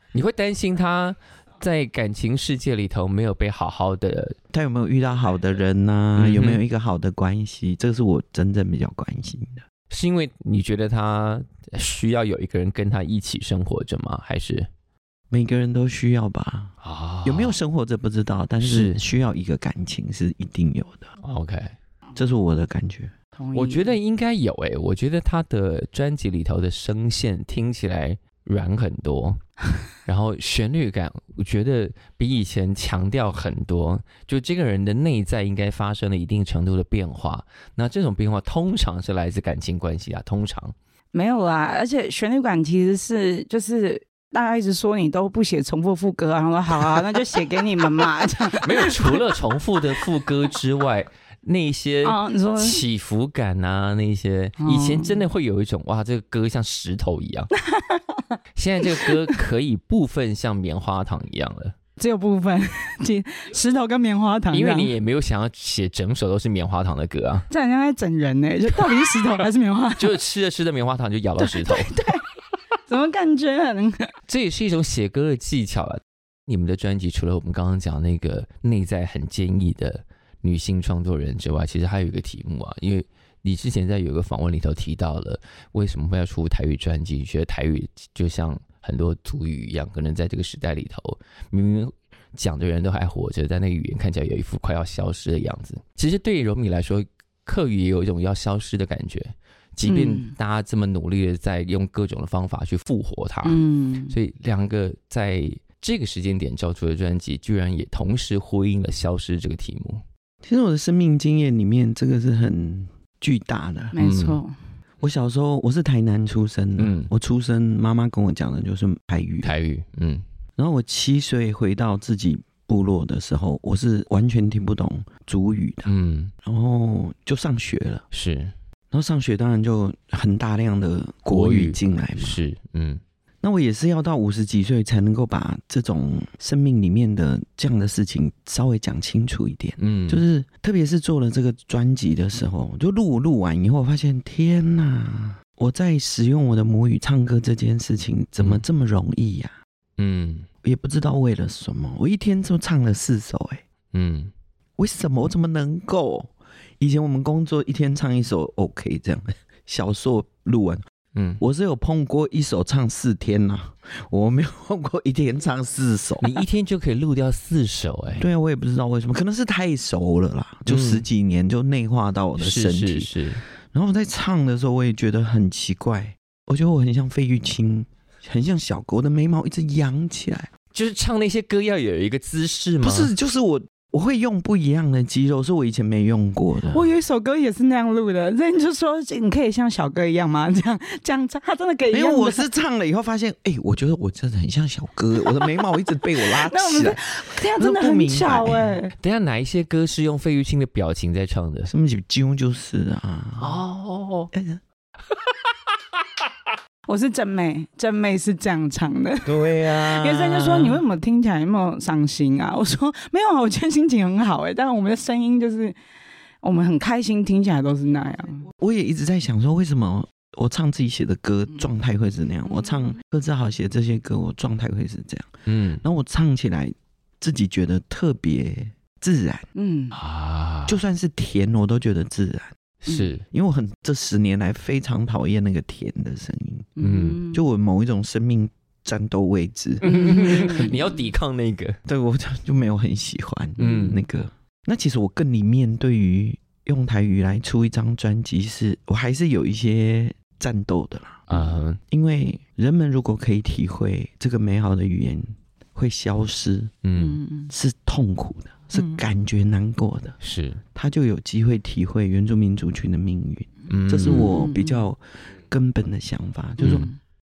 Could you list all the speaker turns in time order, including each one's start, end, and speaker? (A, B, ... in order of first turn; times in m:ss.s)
0:00.1-0:04.4 A
0:04.5-0:09.6 B
0:06.2-0:06.6 A
0:09.9-0:14.7 A
0:15.3-0:21.1 B
0:16.8-0:17.6 A
0:18.6-0:19.0 A
0:21.2-0:21.8 A
0:22.2-0:23.1 B
0:23.4-0:24.0 C
0:23.5-0:29.4 A
0:30.0-0:40.8 A
0:41.1-0:49.2 C
0:48.5-0:57.5 A
0:52.0-0:52.8 C
0:54.6-0:55.2 C
0:57.6-0:58.3 C
0:58.6-1:01.8 A
0:58.9-0:59.4 C
1:02.0-1:04.9 C
1:04.5-1:07.5 A
1:07.5-1:10.2 C
1:10.0-1:12.0 A
1:11.4-1:12.2 C
1:12.9-1:14.1 C
1:14.3-1:50.0 A
1:39.8-1:40.3 C
1:43.4-1:44.2 C
1:50.4-1:53.9 B
1:53.9-1:54.6 C
1:54.0-1:54.4 A
1:55.0-1:59.5 B
1:56.8-1:57.1 A
1:59.4-2:00.2 A
2:00.6-2:05.9 B
2:05.9-2:06.3 A
2:06.4-2:08.0 B
2:08.1-2:08.5 A
2:08.9-2:12.4 B
2:11.3-2:13.0 A
2:13.4-2:29.6 B
2:19.8-2:20.2 A
2:28.4-2:28.6 A
2:30.0-2:30.5 A
2:30.6-2:33.6 B
2:33.9-2:34.3 A
2:34.8-2:40.8 B
2:41.2-2:41.4 A
2:41.4-2:46.4 B
2:46.2-2:48.3 A
2:48.2-2:53.1 B
2:50.7-2:51.0 A
2:52.4-2:53.4 A
2:53.7-3:00.5 B
3:00.7-3:03.1 A
3:02.8-3:06.9 B
3:06.7-3:12.5 C
3:11.9-3:18.8 B
3:16.2-3:18.9 C
3:19.0-3:21.7 A
3:21.7-3:23.6 B
3:23.4-3:24.3 A
3:24.3-3:24.6 B
3:26.9-3:35.8 C
3:29.2-3:30.8 B
3:36.4-3:38.5 C
3:38.5-3:49.5 B
3:45.5-3:45.8 A
3:49.6-3:50.0 C
3:49.9-3:50.8 A
3:50.7-3:52.5 B
3:52.8-3:53.2 A
3:53.3-3:56.7 B
3:56.8-3:57.4 C
3:56.8-3:57.2 A
3:57.3-4:00.8 B
3:59.8-4:01.8 A
3:59.8-4:00.8 C
4:01.9-4:11.3 B
4:03.6-4:03.9 C
4:03.6-4:04.0 A
4:11.3-4:11.8 A
4:11.9-4:16.7 B
4:16.8-4:17.2 A
4:17.0-4:17.5 C
4:17.5-4:20.2 B
4:18.8-4:19.0 C
4:20.2-4:20.6 A
4:20.8-4:26.9 B
4:23.7-4:24.3 A
4:24.0-4:24.8 C
4:26.6-4:26.9 A
4:26.6-4:27.0 C